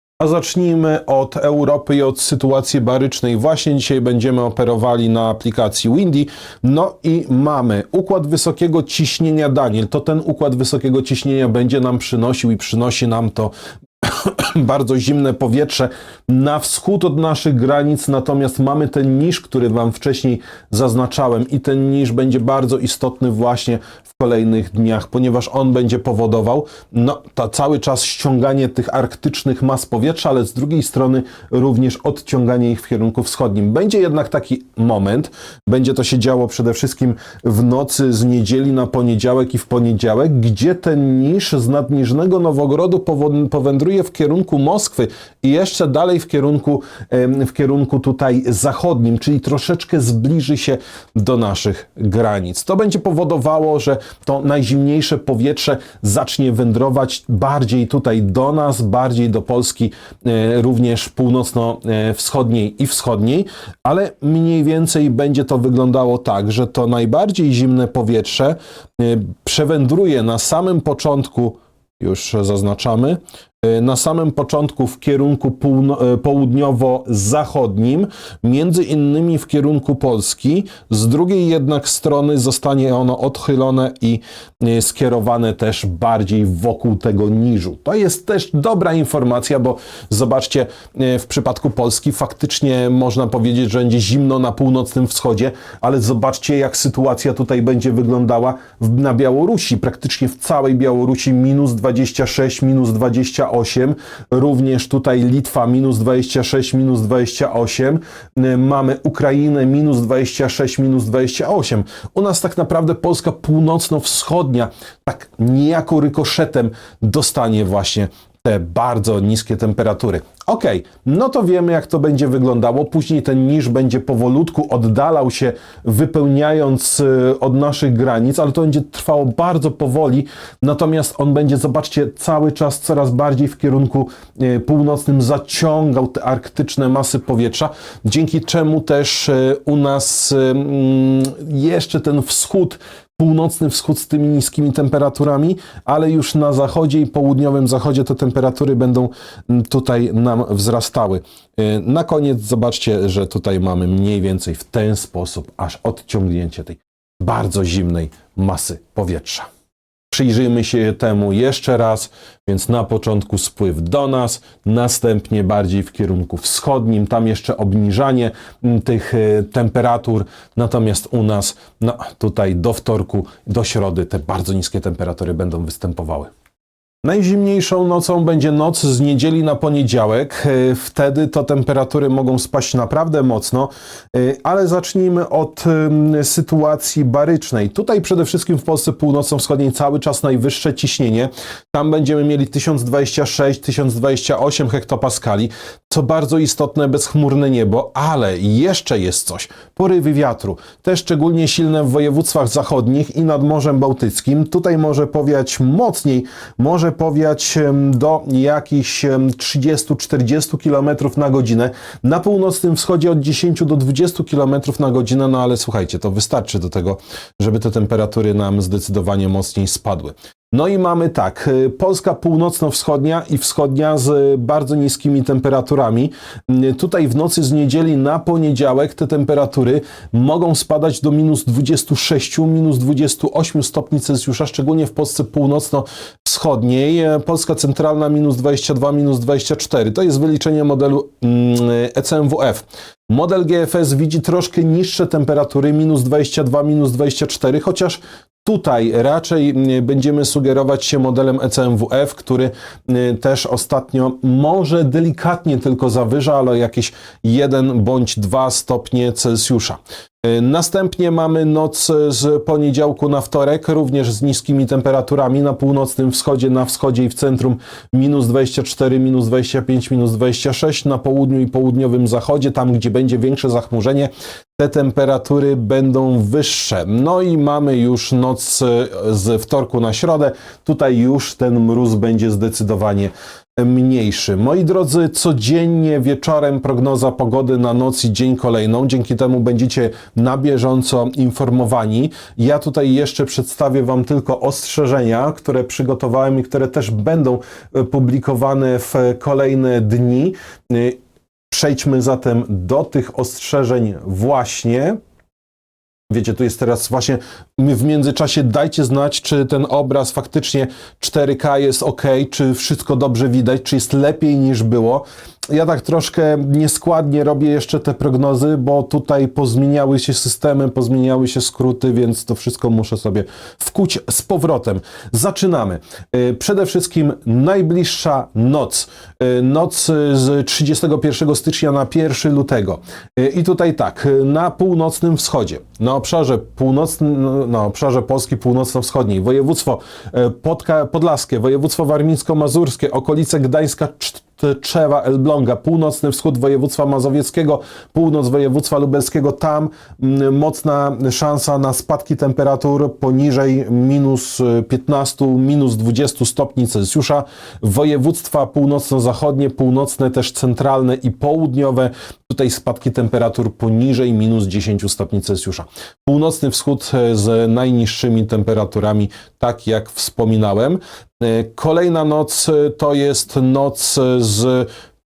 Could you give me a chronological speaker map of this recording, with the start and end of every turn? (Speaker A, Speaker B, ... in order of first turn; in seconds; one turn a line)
Speaker A: 0.2-159.5
Speaker A: 160.1-176.3
Speaker A: 177.0-301.0
Speaker A: 301.5-305.0
Speaker A: 306.1-374.7